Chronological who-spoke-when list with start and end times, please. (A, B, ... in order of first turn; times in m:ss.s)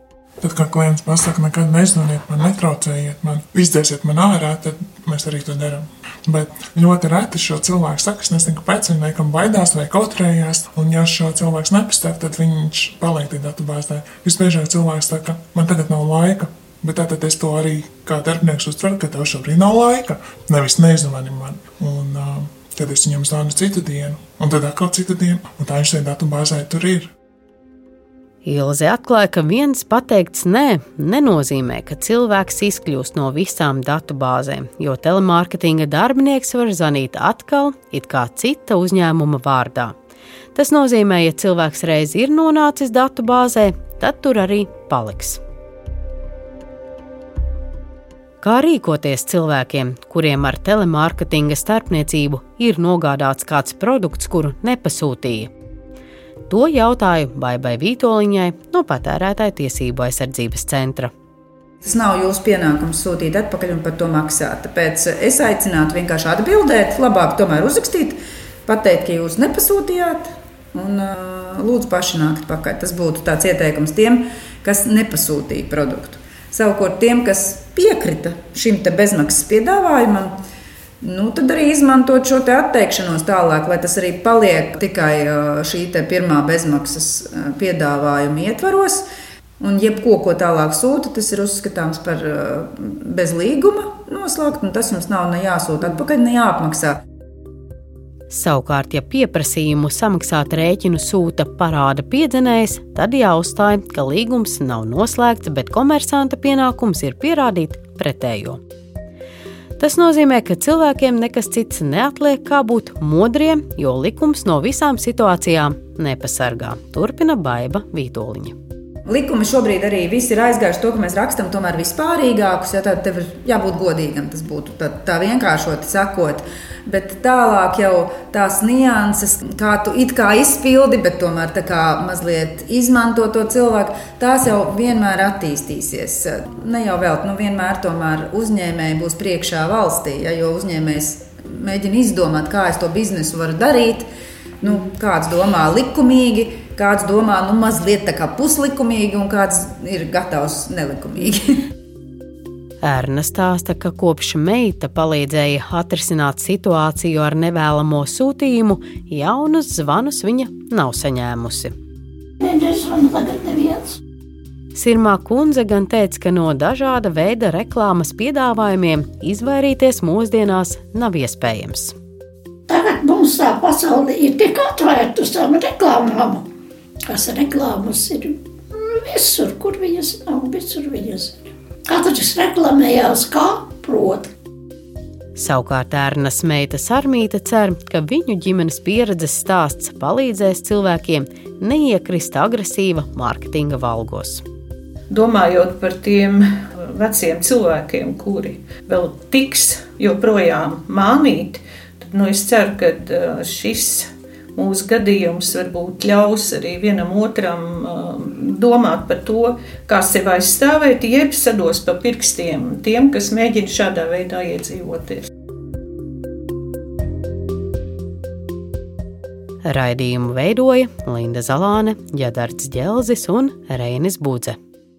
0:00.4-0:27.1 A
0:28.4-0:39.9 B
0:40.5-0:45.4 B
0:48.4-0:55.5 B
0:56.5-1:01.1 B
1:01.8-1:20.4 C
1:21.0-1:29.0 C
1:29.6-1:37.0 C
1:38.3-1:48.6 B
1:49.8-1:58.6 B
1:59.1-2:24.1 C
2:24.6-2:31.6 C
2:32.8-2:41.7 B
2:42.4-2:44.0 D
2:44.7-2:51.9 B
2:52.7-2:56.5 D
2:57.1-3:04.3 D
3:05.4-3:14.4 B
3:15.1-3:35.3 E
3:39.6-3:44.6 B